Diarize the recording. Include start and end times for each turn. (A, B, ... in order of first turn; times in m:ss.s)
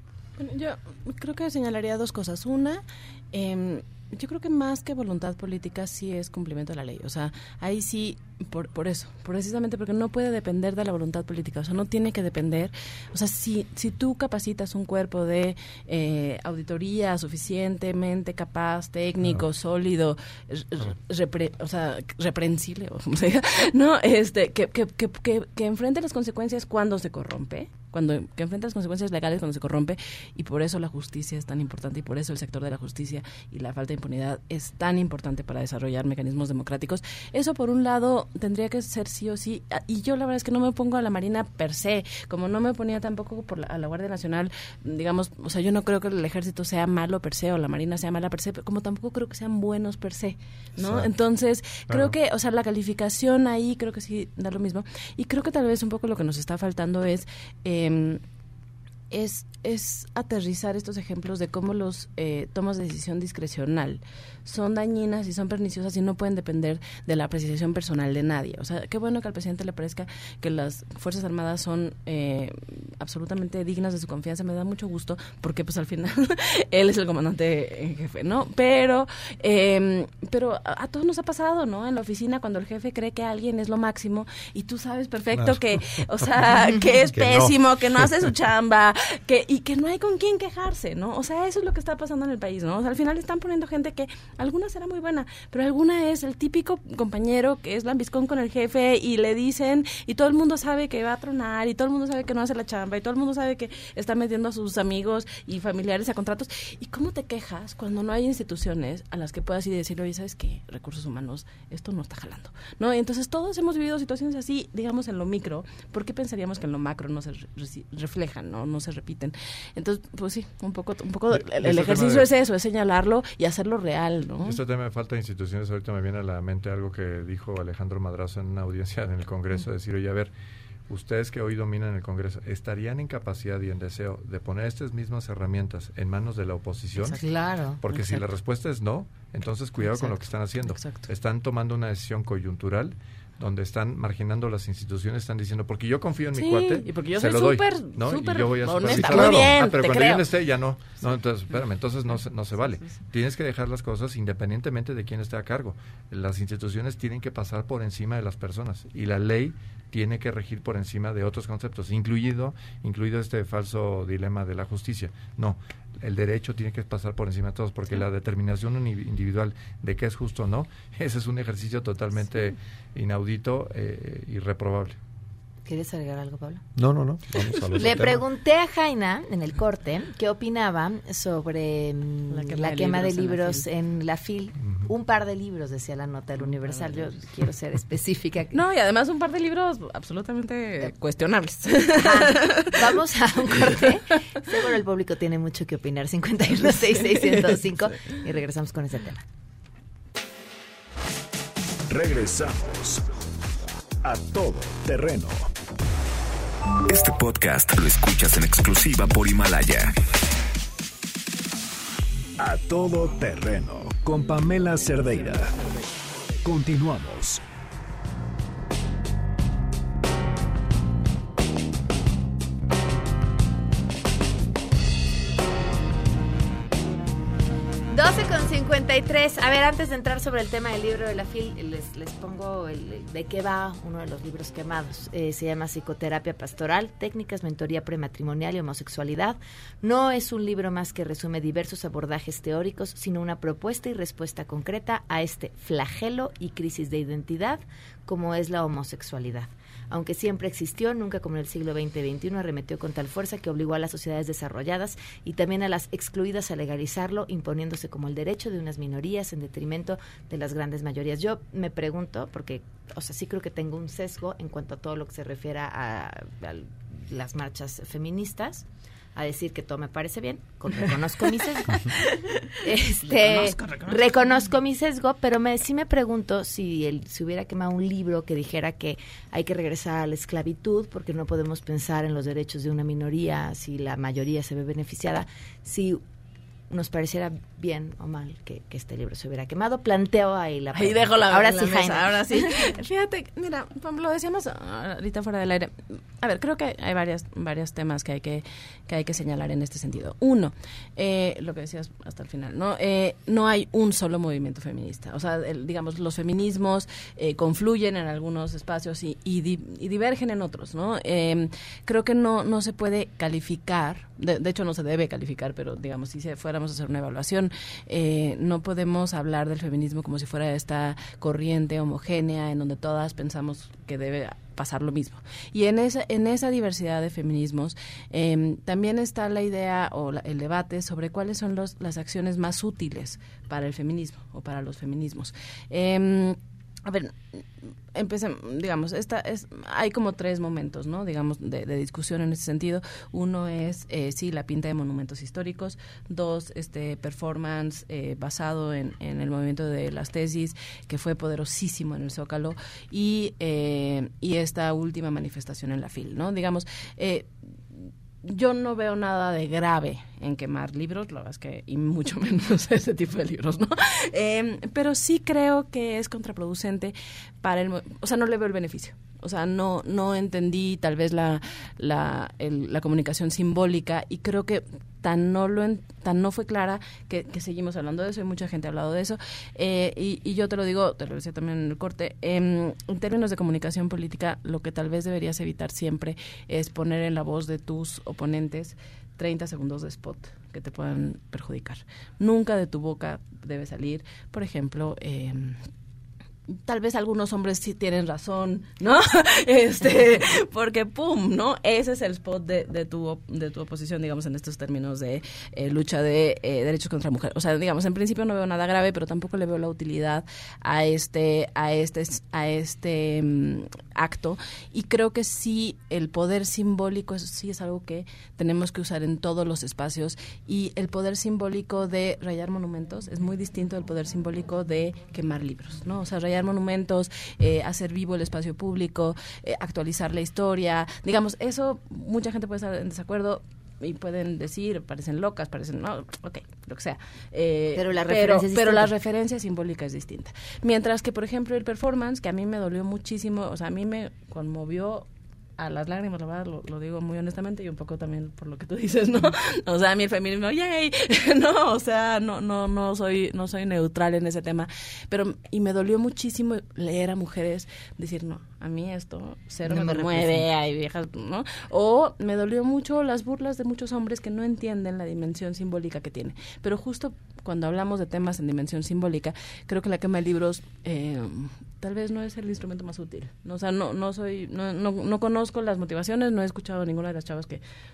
0:00.4-0:58.2 A
0:50.8-0:51.0 B
0:59.1-2:04.6 A
1:25.3-1:25.6 B
1:27.1-1:27.6 B
2:01.3-2:02.3 C
2:04.4-2:10.3 C
2:10.9-2:17.2 C
2:17.0-2:17.8 D
2:17.8-2:55.0 C
2:26.3-2:30.2 A
2:29.1-2:29.4 B
2:55.6-2:56.6 D
2:56.8-2:58.2 B
2:57.8-3:08.5 D
3:02.3-3:03.6 A
3:06.7-3:07.0 A
3:08.5-3:12.9 A
3:12.0-3:19.2 D
3:16.9-3:17.6 A
3:21.9-3:23.0 E
3:24.0-3:25.5 E
3:26.9-3:29.9 F
3:32.4-3:35.5 E
3:36.4-3:37.4 E
3:47.9-4:46.0 D
4:46.7-4:52.6 D
4:50.7-6:35.6 A
6:36.5-7:57.6 A
7:17.7-7:18.9 D
7:39.6-7:40.5 D